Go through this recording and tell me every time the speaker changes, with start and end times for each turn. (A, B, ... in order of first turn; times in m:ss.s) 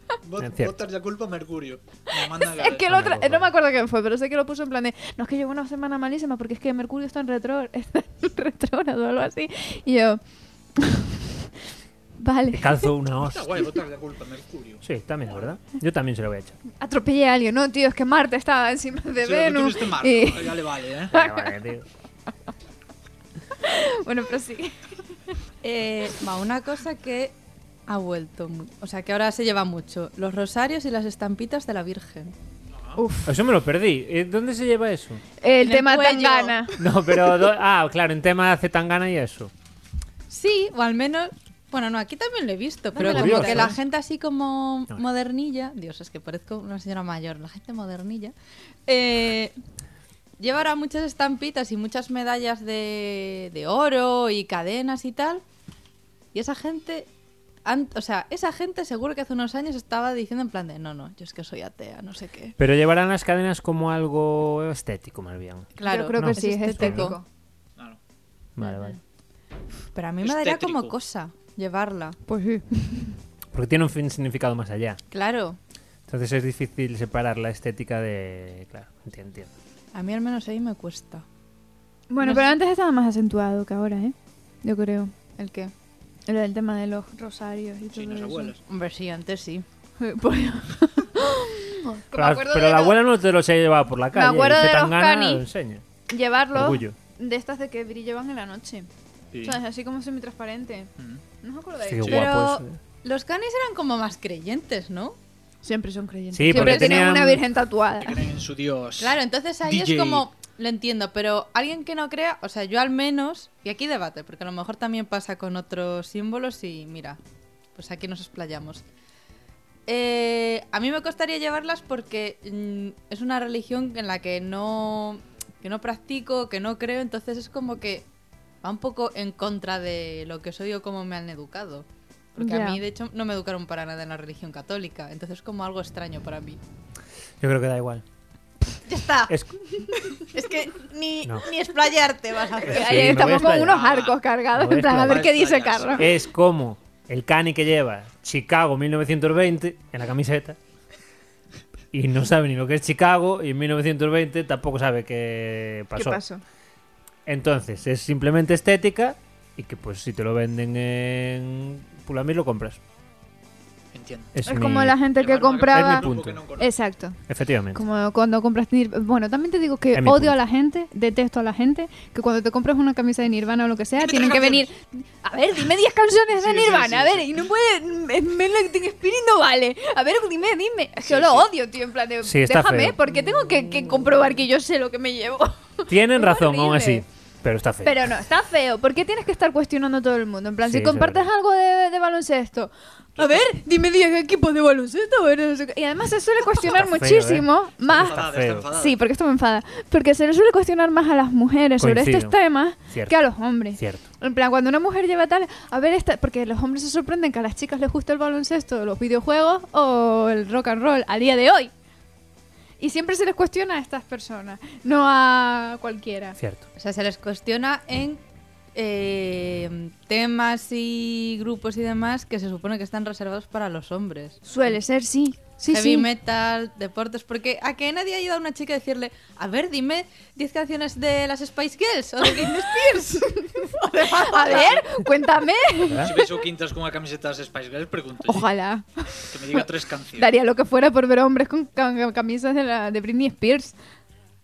0:00.2-0:02.9 A
0:00.4-0:00.7 B
0:02.1-0:10.2 C
0:02.8-0:03.5 B
0:10.8-0:11.3 C
0:12.2-0:12.9 C
0:12.5-0:13.8 B
0:13.2-0:15.6 A
0:14.8-0:16.6 B
0:16.8-0:21.5 C
0:19.2-0:21.2 A
0:21.1-0:21.8 B
0:23.6-0:24.7 C
0:25.6-0:27.3 D
0:27.9-0:32.3 D
0:33.0-0:33.3 C
0:33.2-0:35.2 B
0:35.4-0:37.2 C
0:35.6-0:36.7 D
0:36.8-0:39.5 B
0:40.3-0:48.3 D
0:42.9-0:43.8 C
0:43.0-0:43.8 B
0:48.9-0:49.5 D
0:50.4-0:55.4 D
0:56.3-0:57.1 D
0:57.6-1:02.6 D
1:02.6-1:07.1 B
1:05.8-1:07.2 D
1:05.8-1:07.2 C
1:08.6-1:09.0 B
1:08.6-1:08.9 C
1:09.9-1:12.2 D
1:10.2-1:10.9 A
1:12.3-1:13.2 C
1:13.5-1:15.0 B
1:15.1-1:15.6 D
1:16.1-1:19.5 B
1:19.9-1:21.2 D
1:22.1-1:25.1 C
1:22.2-1:22.5 D
1:25.4-1:25.7 D
1:26.3-1:28.5 C
1:27.9-1:28.6 A
1:28.6-1:29.6 D
1:30.0-1:33.0 C
1:32.1-1:35.8 B
1:34.1-1:35.4 C
1:36.1-1:38.9 C
1:36.5-1:37.0 B
1:39.3-1:39.6 A
1:39.4-1:40.9 C
1:41.4-1:42.3 C
1:41.8-1:42.8 B
1:42.1-1:45.2 D
1:45.6-1:48.2 C
1:46.3-1:47.4 B
1:46.5-1:47.1 D
1:48.0-1:50.2 A
1:49.0-1:57.2 D
1:57.7-1:58.8 D
1:59.9-2:08.0 D
2:08.6-2:16.6 D
2:12.4-2:12.8 C
2:17.4-2:18.0 B
2:18.9-2:19.3 D
2:19.3-2:19.6 B
2:20.1-2:23.1 D
2:22.6-2:23.8 B
2:22.7-2:26.1 C
2:23.4-2:24.2 A
2:24.5-2:25.3 B
2:25.0-2:26.1 A
2:26.0-2:30.6 B
2:31.9-2:36.2 B
2:35.9-2:36.4 C
2:37.2-2:42.8 B
2:43.9-2:44.4 A
2:44.3-2:45.0 B
2:44.4-2:47.2 C
2:45.1-2:46.7 A
2:45.7-2:46.4 B
2:47.3-2:47.8 B
2:47.7-3:07.0 C
2:49.9-2:50.4 B
2:54.0-2:54.7 A
2:56.3-2:57.4 A
3:01.0-3:01.5 A
3:02.2-3:03.0 B
3:05.9-3:08.1 B
3:07.8-3:31.7 C
3:10.6-3:11.3 B
3:13.2-3:13.5 A
3:16.6-3:18.7 B
3:17.9-3:19.0 A
3:21.8-3:24.0 B
3:32.8-3:36.4 C
3:36.4-3:36.6 B
3:36.8-3:38.2 D
3:38.7-3:44.5 D
3:44.5-3:46.1 C
3:45.7-3:54.8 D
3:53.2-3:56.2 C
3:54.5-3:54.8 A
3:55.8-3:56.1 B
3:56.0-3:58.5 A
3:58.3-4:03.8 C
3:59.3-4:00.3 A